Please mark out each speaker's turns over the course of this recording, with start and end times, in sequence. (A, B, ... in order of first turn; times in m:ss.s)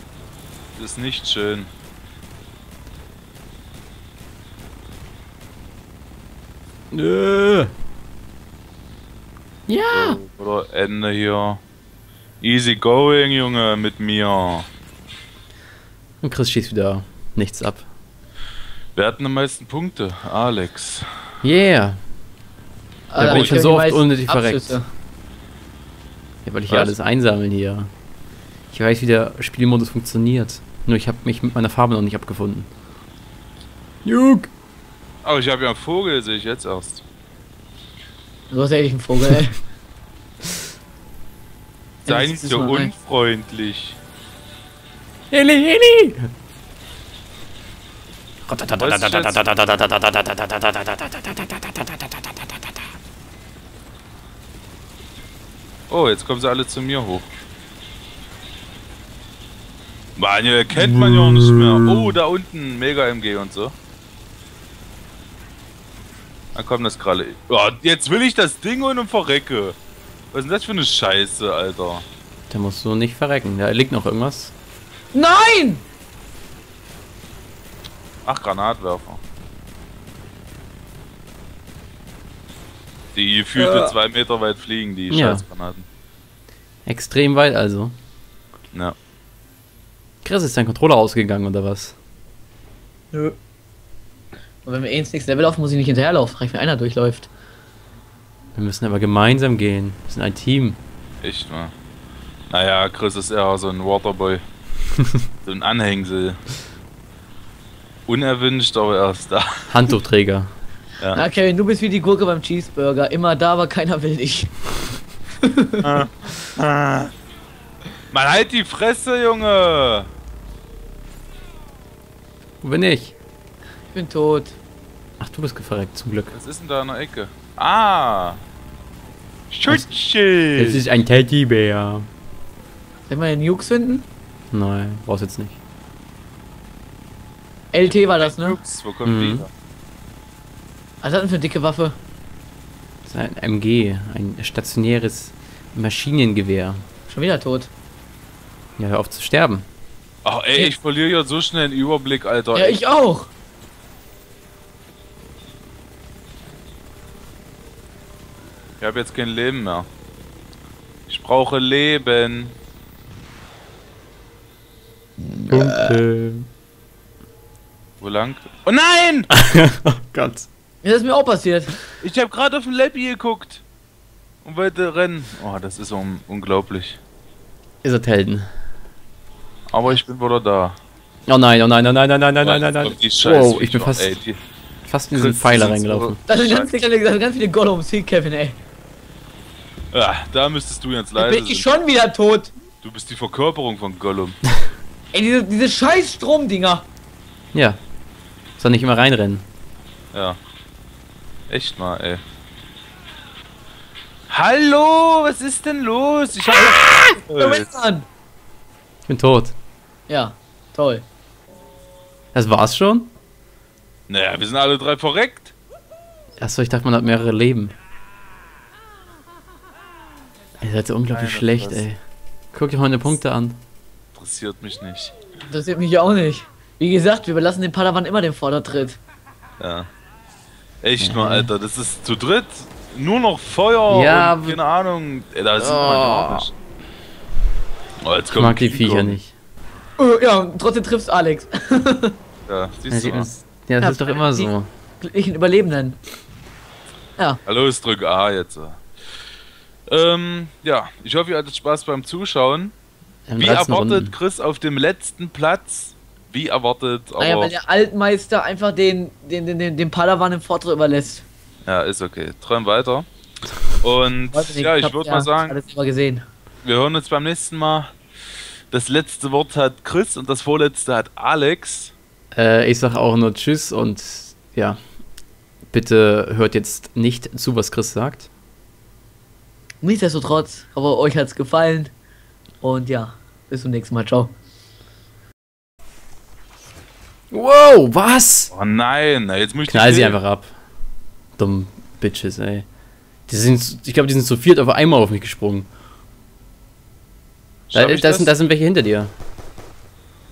0:00.8-0:01.7 A
0:06.9-0:07.7 B
0:09.7-0:10.2 B
0:09.9-0:11.6 A
0:12.4-0:14.7 A
0:16.2-0:17.8 B
0:19.0-0:21.0 A
0:21.4-0:22.0 B
0:23.1-0:24.9 C
0:23.2-0:24.8 B
0:23.2-0:23.6 A
0:26.4-0:27.9 B
0:26.7-0:27.0 A
0:28.7-0:32.7 B
0:34.0-0:34.5 B
0:35.2-0:37.0 A
0:38.5-0:39.6 C
0:42.0-0:42.9 C
0:42.0-0:44.0 A
0:45.3-0:46.3 B
0:48.5-0:52.7 B
0:48.8-0:49.4 A
0:55.9-0:57.3 A
1:00.2-1:03.7 A
1:00.7-1:02.1 B
1:06.5-1:09.8 A
1:10.3-1:12.0 A
1:12.5-1:14.5 B
1:15.1-1:15.8 C
1:18.2-1:19.2 A
1:23.1-1:25.8 A
1:23.5-1:23.9 C
1:25.1-1:25.4 B
1:26.8-1:27.9 B
1:30.2-1:32.0 B
1:33.1-1:33.4 C
1:34.6-1:37.3 C
1:38.5-1:40.8 B
1:41.2-1:41.7 A
1:42.5-1:44.4 A
1:45.4-1:46.4 A
1:48.1-1:49.7 A
1:49.7-1:50.5 B
1:51.1-1:54.5 C
1:55.4-1:55.8 C
1:55.8-1:57.1 A
1:58.1-2:00.1 A
2:02.6-2:03.1 B
2:03.9-2:04.6 C
2:05.2-2:06.3 B
2:06.3-2:08.4 A
2:09.5-2:10.8 A
2:10.5-2:12.1 B
2:13.1-2:14.1 C
2:14.5-2:15.6 B
2:17.7-2:18.6 C
2:18.2-2:19.5 A
2:19.0-2:19.4 B
2:21.0-2:22.0 C
2:23.0-2:26.8 B
2:27.1-2:27.7 C
2:28.8-2:29.6 B
2:30.2-2:32.8 A
2:32.5-2:33.3 C
2:38.8-2:39.8 A
2:41.1-2:42.5 A
2:45.2-2:46.0 C
2:45.5-2:46.5 B
2:48.0-2:49.3 A
2:49.3-2:50.5 B
2:50.8-2:51.7 C
2:52.0-2:53.6 A
2:54.4-2:57.0 A
2:57.8-2:58.5 B
2:59.7-3:00.8 A
3:01.3-3:04.2 B
3:02.4-3:04.4 A
3:04.8-3:06.2 B
3:05.1-3:06.7 A
3:06.3-3:08.6 C
3:09.9-3:11.6 A
3:11.2-3:12.5 C
3:12.8-3:14.4 A
3:15.1-3:16.9 C
3:17.5-3:17.8 B
3:18.6-3:19.4 B
3:20.1-3:20.4 A
3:21.5-3:22.2 A
3:24.3-3:27.7 A
3:26.5-3:28.1 C
3:29.1-3:29.5 B
3:30.1-3:31.0 C
3:32.3-3:33.1 B
3:34.1-3:35.5 A
3:36.4-3:37.7 B
3:40.6-3:42.0 B
3:41.1-3:41.8 A
3:42.5-3:43.6 B
3:44.1-3:45.1 A
3:45.5-3:49.0 C
3:49.6-3:49.9 A
3:50.8-3:56.5 A
3:51.0-3:51.5 B
3:53.9-3:54.6 B
3:55.6-3:56.5 B
3:58.0-3:59.2 A
3:58.3-3:59.3 B
4:00.0-4:02.2 C
4:02.5-4:03.3 A
4:02.9-4:04.7 B
4:03.8-4:06.0 C
4:07.4-4:08.8 A
4:09.9-4:12.7 A
4:13.3-4:14.1 B
4:13.4-4:17.5 A
4:17.2-4:21.2 C
4:21.6-4:23.1 A
4:23.8-4:25.6 A
4:24.3-4:26.2 C
4:26.6-4:27.9 A
4:28.7-4:31.9 A
4:32.3-4:34.8 B
4:35.7-4:38.3 B
4:39.8-4:41.9 C
4:42.6-4:44.3 C
4:47.3-4:48.5 B
4:48.5-4:50.2 A
4:49.7-4:50.5 B
4:51.4-4:52.6 B
4:53.3-4:55.7 B
4:57.7-4:58.4 A
4:57.7-4:59.1 B